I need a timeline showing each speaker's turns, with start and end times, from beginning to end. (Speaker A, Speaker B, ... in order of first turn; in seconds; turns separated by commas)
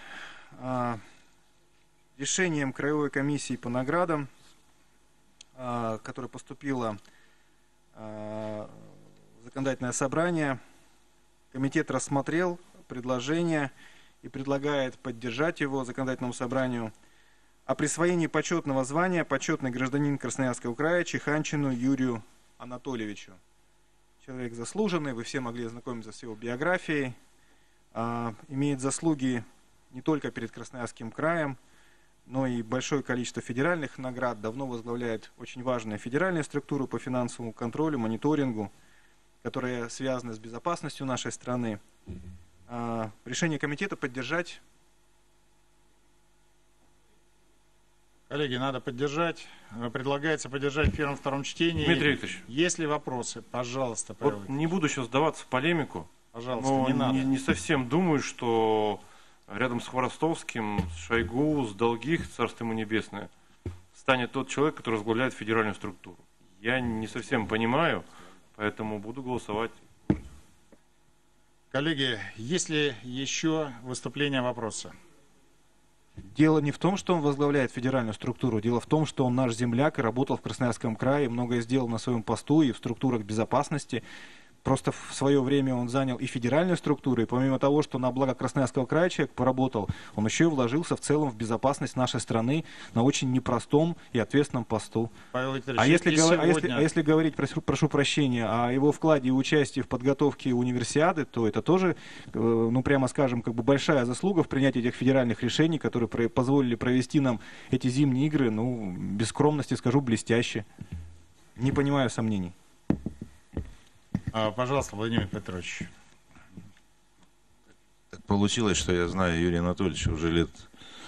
Speaker A: 0.6-1.0, Speaker A: 2.2-4.3, Speaker A: 5.5-7.0, Speaker A: 8.0-8.8, Speaker A: 9.4-10.6, Speaker A: 11.5-13.7, Speaker A: 14.2-16.9, Speaker A: 17.7-23.4, Speaker A: 24.2-27.1, Speaker A: 27.9-31.6, Speaker A: 32.3-38.7, Speaker A: 39.4-41.8, Speaker A: 42.7-44.6, Speaker B: 48.3-54.7, Speaker C: 51.8-52.4, Speaker C: 54.2-63.3, Speaker B: 56.3-57.3, Speaker C: 64.0-69.8, Speaker B: 71.7-74.9, Speaker A: 76.3-84.0, Speaker A: 84.6-95.1, Speaker B: 95.3-96.9, Speaker A: 95.8-110.7, Speaker A: 111.6-112.5, Speaker B: 114.3-115.9, Speaker D: 118.1-120.7